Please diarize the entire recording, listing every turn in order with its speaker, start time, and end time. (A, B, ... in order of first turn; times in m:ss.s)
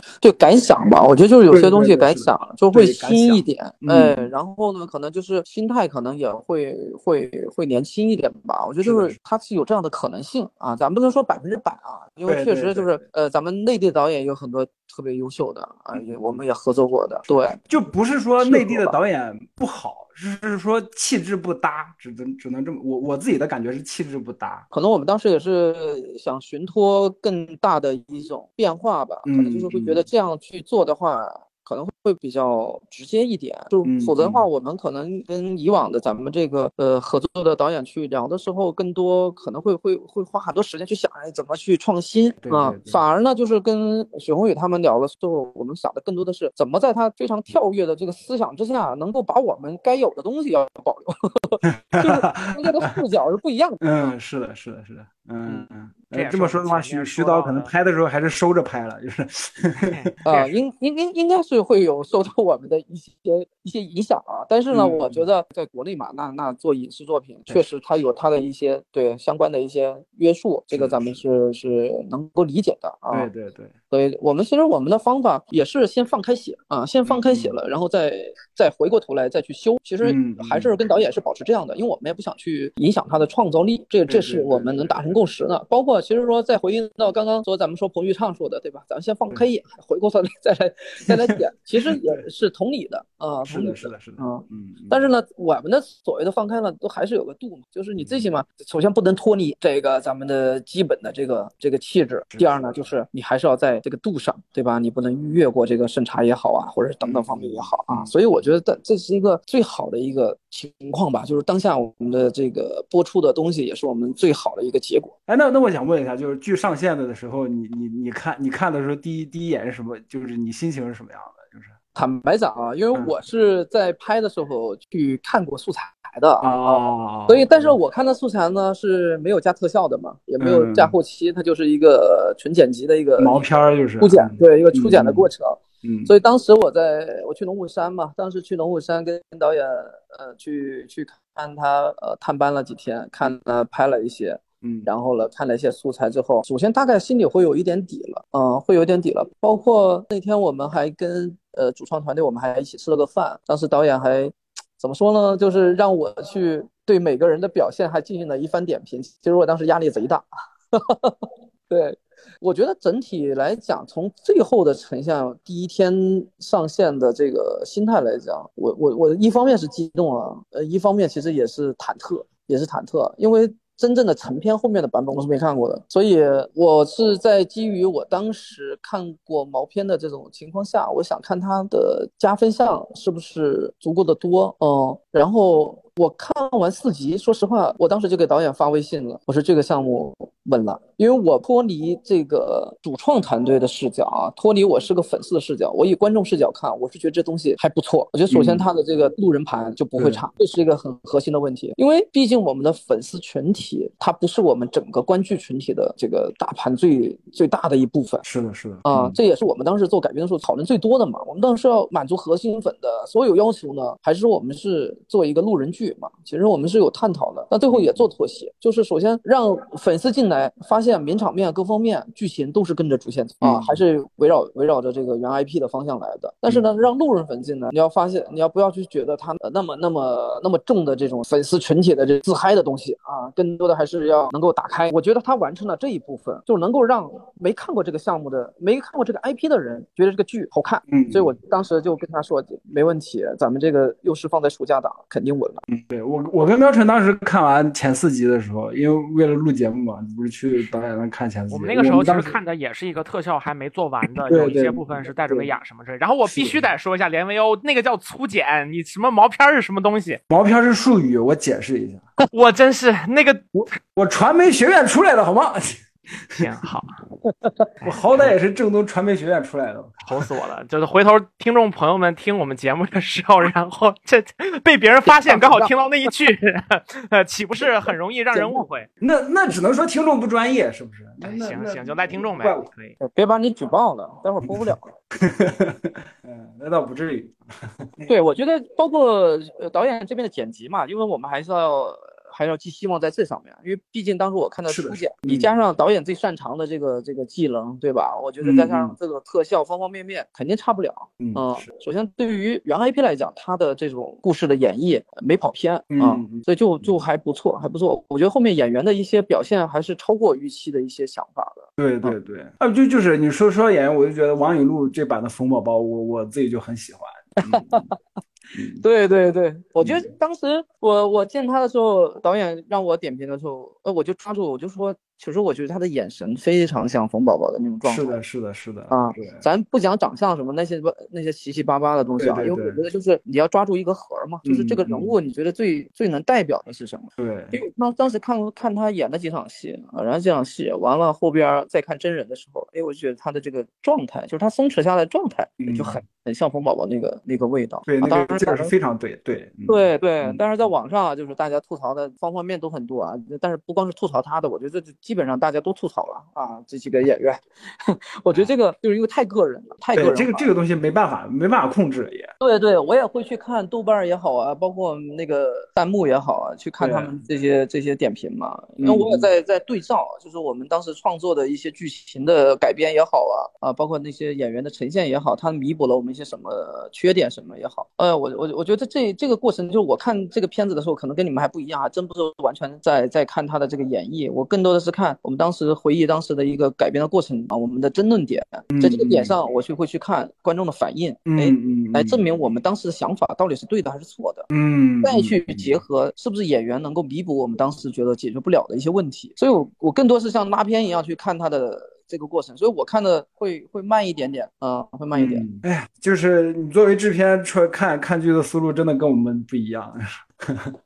0:00.2-0:17.6 A
0:01.5-0:04.3 B
0:08.8-0:09.2 B
0:12.3-0:13.0 B
0:15.9-0:16.4 B
0:17.7-0:24.6 B
0:18.4-0:19.0 A
0:24.7-0:53.8 A
0:29.2-0:30.0 B
0:33.8-0:34.4 B
0:42.4-0:43.0 B
0:51.9-0:52.9 B
0:53.8-0:59.9 B
0:55.4-0:57.7 C
0:59.9-1:00.5 C
1:00.2-1:13.3 A
1:04.7-1:05.2 B
1:10.7-1:11.0 B
1:13.1-1:13.7 B
1:13.9-1:55.1 A
1:17.0-1:17.6 B
1:20.0-1:20.7 B
1:24.1-1:25.0 B
1:33.4-1:35.0 B
1:38.0-1:38.3 B
1:47.0-1:48.1 B
1:55.3-2:01.7 B
2:01.9-2:13.4 A
2:06.4-2:07.8 B
2:10.4-2:10.9 B
2:13.2-2:15.3 B
2:14.0-3:28.2 A
2:15.8-2:16.1 B
2:24.6-2:24.9 B
3:18.3-3:18.6 B
3:20.0-3:20.2 B
3:28.2-3:29.2 B
3:28.8-4:05.6 A
3:37.7-3:38.0 B
3:43.4-3:43.8 B
4:00.9-4:01.3 B
4:05.7-4:12.4 B
4:11.5-4:20.2 C
4:14.3-4:15.5 B
4:16.3-4:16.6 B
4:20.3-4:22.1 B
4:22.3-4:23.5 C
4:23.5-4:25.8 B
4:26.4-4:26.9 C
4:27.8-4:28.4 C
4:27.8-4:30.0 B
4:30.0-4:38.9 C
4:35.2-4:35.7 A
4:38.3-4:38.6 A
4:39.0-4:42.7 B
4:41.2-4:43.0 C
4:43.0-4:45.0 A
4:44.6-4:48.1 B
4:48.1-5:12.2 A
4:54.7-4:55.5 B
4:58.4-4:58.9 B
5:01.2-5:01.6 B
5:05.9-5:06.4 B
5:11.8-5:17.8 B
5:17.4-5:18.0 A
5:18.5-5:18.8 B
5:18.8-5:28.1 A
5:19.8-5:20.1 B
5:27.8-5:29.4 B
5:28.9-5:48.7 A
5:32.2-5:32.8 B
5:34.4-5:35.1 B
5:37.2-5:37.6 B
5:45.6-5:46.0 B
5:47.9-5:50.4 B
5:49.7-6:00.5 A
5:59.9-6:02.3 B
6:02.4-6:34.5 A
6:06.8-6:07.1 B
6:08.8-6:09.3 B
6:28.7-6:29.3 B
6:31.3-6:32.2 B
6:34.5-6:35.8 B
6:35.0-6:45.4 A
6:45.1-6:50.7 B